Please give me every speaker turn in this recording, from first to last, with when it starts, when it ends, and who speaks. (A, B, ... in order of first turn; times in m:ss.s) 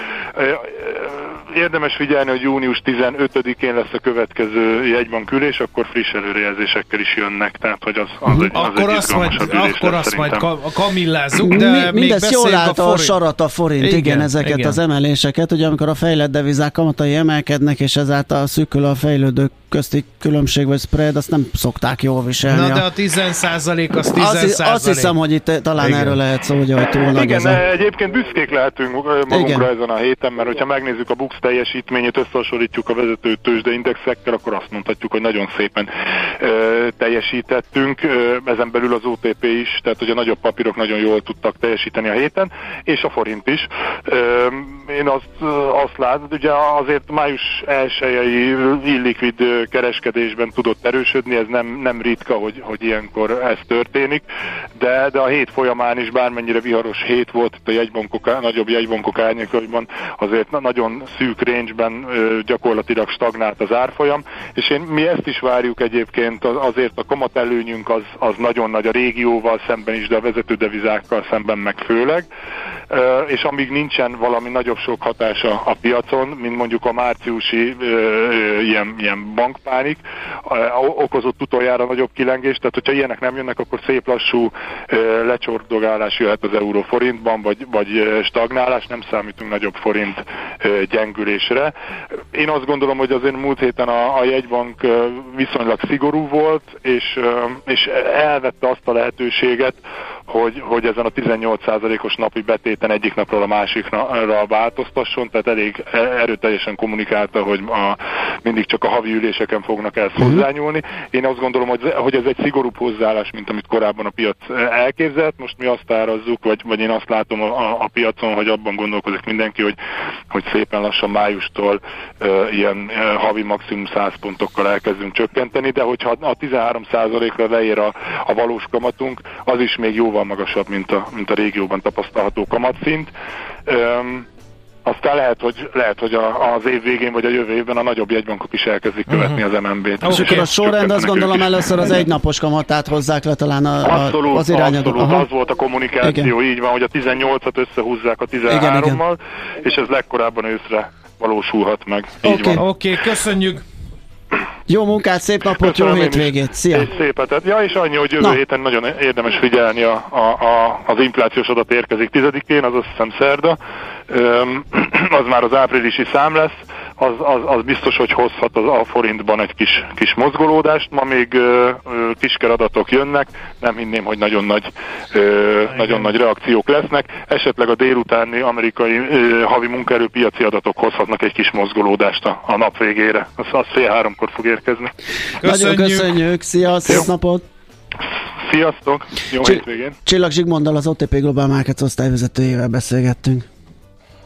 0:00.4-0:10.5 A
0:08.5-0:13.2 B
0:11.4-0:22.9 C
0:13.8-0:14.8 B
0:22.5-0:25.2 B
0:24.1-0:27.6 C
0:25.8-0:26.2 B
0:27.1-0:54.2 A
0:29.3-0:29.6 C
0:54.8-1:12.3 A
1:12.9-1:31.7 A
1:32.3-1:59.8 A
2:00.3-2:13.1 A
2:13.7-2:14.3 A
2:14.9-2:22.0 A
2:19.1-2:19.4 B
2:20.0-2:20.5 B
2:20.0-2:25.3 C
2:23.8-2:32.6 A
2:26.0-2:26.3 C
2:28.5-2:29.0 C
2:32.2-2:32.6 C
2:32.6-2:33.6 B
2:34.7-2:36.9 C
2:35.5-2:43.6 A
2:44.1-3:04.9 A
2:55.7-2:56.1 B
3:05.4-3:06.2 B
3:05.4-3:07.4 C
3:08.4-3:10.0 A
3:09.4-3:13.5 C